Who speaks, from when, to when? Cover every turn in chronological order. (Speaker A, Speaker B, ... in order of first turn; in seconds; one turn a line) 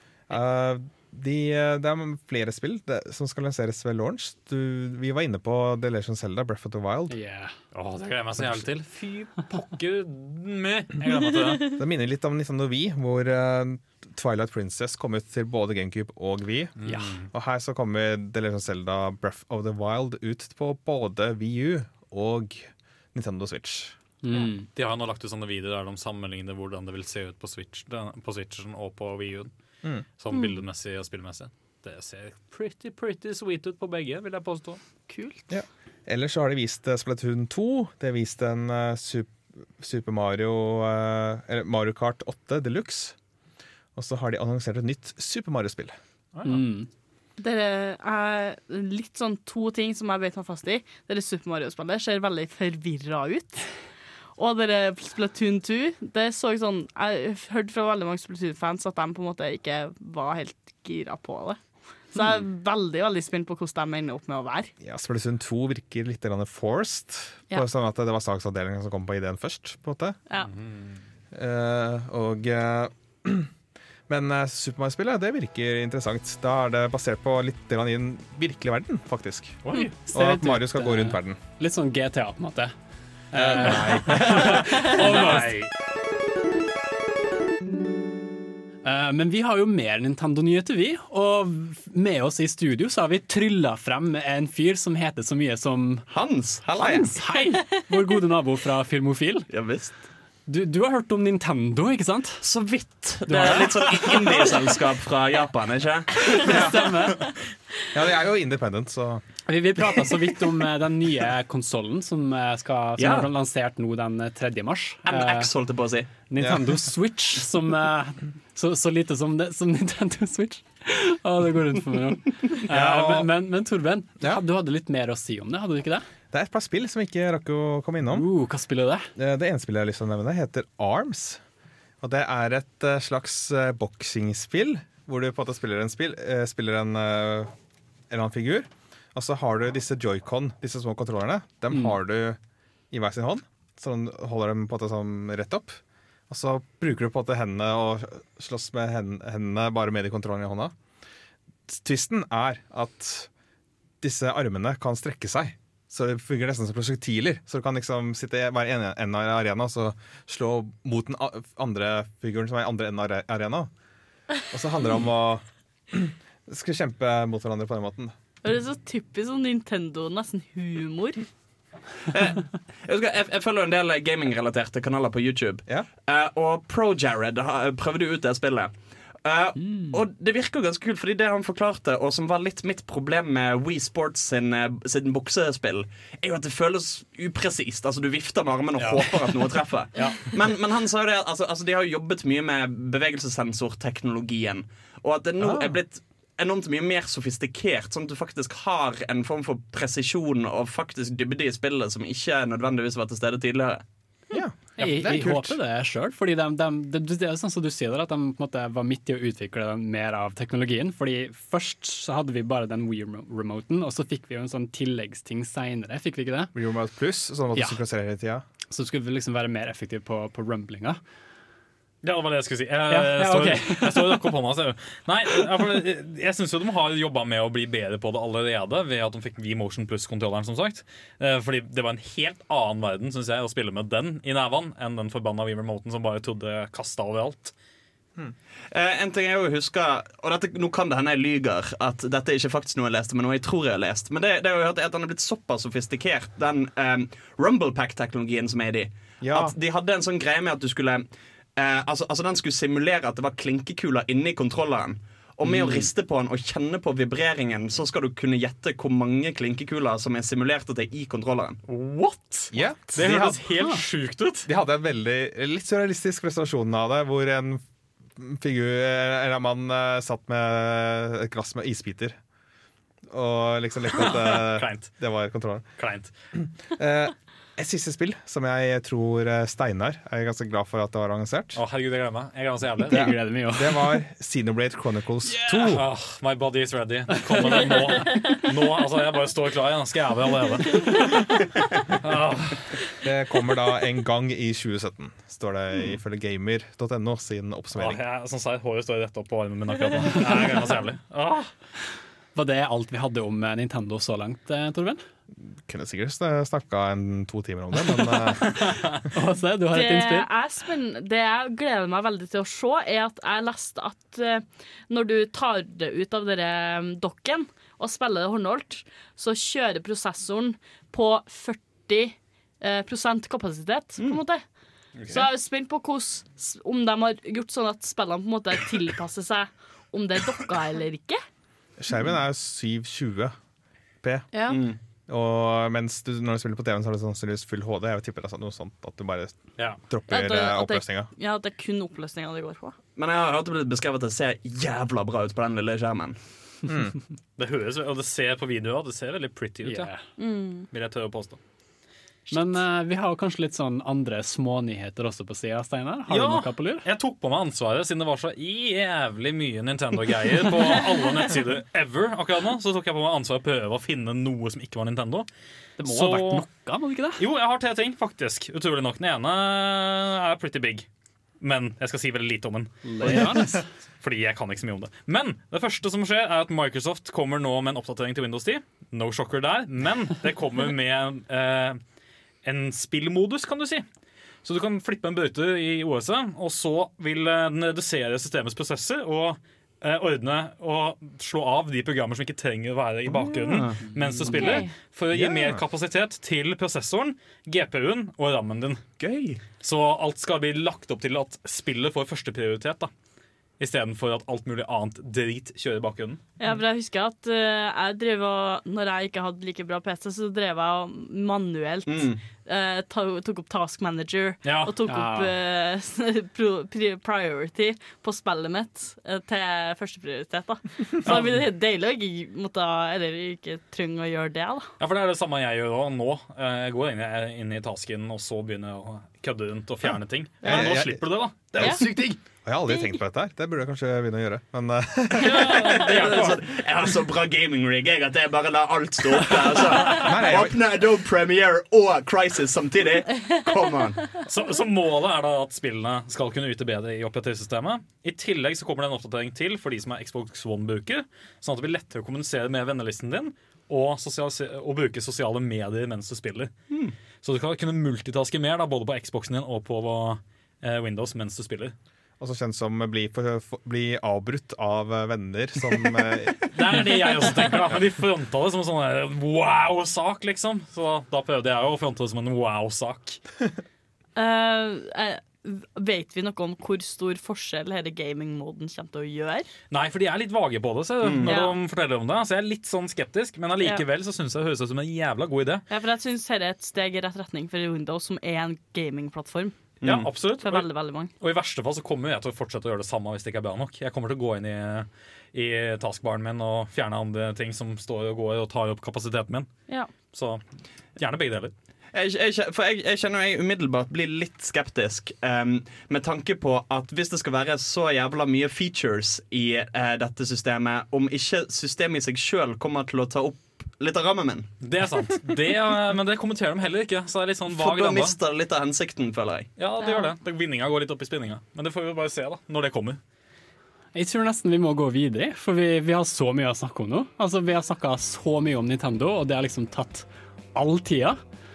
Speaker A: 0.3-7.2
Speaker B: 7.1-7.5
Speaker C: 7.7-11.8
Speaker A: 11.8-16.7
Speaker C: 16.8-17.3
Speaker B: 16.9-17.2
Speaker A: 17.3-24.0
Speaker B: 24.2-24.7
Speaker C: 24.7-29.5
Speaker C: 30.2-34.8
Speaker D: 30.3-30.6
Speaker D: 35.1-35.5
Speaker A: 35.5-43.1
Speaker A: 43.9-46.0
Speaker C: 46.3-46.6
Speaker B: 46.5-46.9
Speaker D: 47.4-53.7
Speaker D: 54.4-61.6
Speaker D: 62.1-64.7
Speaker A: 64.8-70.2
Speaker C: 70.4-71.0
Speaker A: 71.3-73.5
Speaker A: 74.1-79.6
Speaker C: 79.6-79.9
Speaker B: 79.7-82.7
Speaker A: 80.1-81.4
Speaker B: 83.3-85.6
Speaker A: 83.3-84.6
Speaker C: 83.4-85.7
Speaker B: 88.8-96.1
Speaker A: 96.1-97.1
Speaker E: 96.1-96.6
Speaker B: 96.7-99.5
Speaker E: 99.5-100.0
Speaker B: 100.5-102.4
Speaker E: 102.4-106.1
Speaker B: 103.2-104.5
Speaker B: 106.2-107.2
Speaker A: 106.5-106.8
Speaker A: 107.9-109.2
Speaker B: 109.5-115.5
Speaker E: 113.0-113.3
Speaker E: 115.0-116.2
Speaker B: 116.2-126.0
Speaker A: 116.4-116.8
Speaker A: 122.7-123.3
Speaker A: 126.3-128.3
Speaker B: 128.1-129.1
Speaker A: 129.2-131.4
Speaker A: 132.0-137.5
Speaker A: 138.1-142.4
Speaker A: 142.9-150.7
Speaker A: 151.7-153.3
Speaker A: 154.0-163.7
Speaker A: 164.5-168.1
Speaker D: 168.4-171.2
Speaker E: 172.1-203.8
Speaker B: 179.6-180.0
Speaker C: 188.8-189.3
Speaker C: 189.9-190.3
Speaker A: 195.4-195.8
Speaker A: 204.3-205.6
Speaker B: 204.8-216.5
Speaker A: 216.5-218.4
Speaker B: 218.7-221.0
Speaker C: 222.0-237.5
Speaker B: 222.9-224.3
Speaker E: 238.7-251.0
Speaker A: 249.2-249.5
Speaker E: 251.6-261.6
Speaker C: 261.7-264.5
Speaker A: 262.5-263.4
Speaker A: 264.4-267.6
Speaker A: 268.1-272.2
Speaker A: 273.1-275.6
Speaker C: 273.9-274.9
Speaker C: 275.8-276.1
Speaker A: 276.8-281.6
Speaker C: 281.5-283.1
Speaker A: 282.9-285.9
Speaker B: 282.9-284.0
Speaker B: 285.3-285.8
Speaker C: 285.7-291.1
Speaker B: 287.3-287.8
Speaker C: 291.9-292.8
Speaker A: 293.0-298.0
Speaker C: 297.7-301.5
Speaker B: 302.3-305.0
Speaker A: 305.5-308.8
Speaker B: 309.1-310.3
Speaker D: 309.7-324.5
Speaker D: 325.1-331.2
Speaker A: 331.8-333.3
Speaker A: 334.0-334.3
Speaker D: 334.3-334.6
Speaker E: 334.5-334.8
Speaker A: 335.1-341.1
Speaker D: 340.1-342.7
Speaker E: 342.9-346.2
Speaker A: 346.6-347.0
Speaker C: 347.4-349.9
Speaker B: 349.6-350.0
Speaker D: 350.2-350.7
Speaker C: 350.7-351.4
Speaker B: 352.3-356.8
Speaker C: 356.1-365.3
Speaker B: 365.8-367.2
Speaker C: 365.8-366.4
Speaker C: 367.2-370.9
Speaker C: 371.4-381.8
Speaker B: 372.8-373.6
Speaker C: 382.4-383.8
Speaker C: 384.4-398.8
Speaker B: 393.9-394.4
Speaker D: 394.3-394.7
Speaker A: 395.1-395.6
Speaker E: 399.0-399.4
Speaker C: 399.6-402.9
Speaker C: 403.6-406.2
Speaker D: 406.4-424.7
Speaker E: 411.9-412.2
Speaker C: 414.4-414.7
Speaker B: 414.9-415.3
Speaker C: 421.0-421.4
Speaker C: 424.8-432.1
Speaker D: 430.4-430.7
Speaker A: 430.4-431.9
Speaker D: 431.6-431.8
Speaker A: 432.4-436.0
Speaker C: 435.1-436.4
Speaker D: 435.4-436.2
Speaker E: 435.8-444.0
Speaker A: 439.9-440.6
Speaker C: 444.2-456.5
Speaker C: 457.2-461.7
Speaker A: 462.2-466.8
Speaker C: 466.5-473.2
Speaker D: 474.1-479.5
Speaker C: 479.7-485.6
Speaker E: 481.0-481.3
Speaker D: 481.2-481.6
Speaker D: 485.7-489.6
Speaker E: 489.8-490.1
Speaker C: 489.8-490.7
Speaker D: 490.4-491.1
Speaker C: 491.2-499.5
Speaker C: 500.1-500.4
Speaker C: 501.0-501.5
Speaker E: 501.9-514.5
Speaker C: 514.6-518.2
Speaker E: 517.5-519.5
Speaker C: 519.6-523.0
Speaker D: 519.8-520.1
Speaker B: 523.9-531.2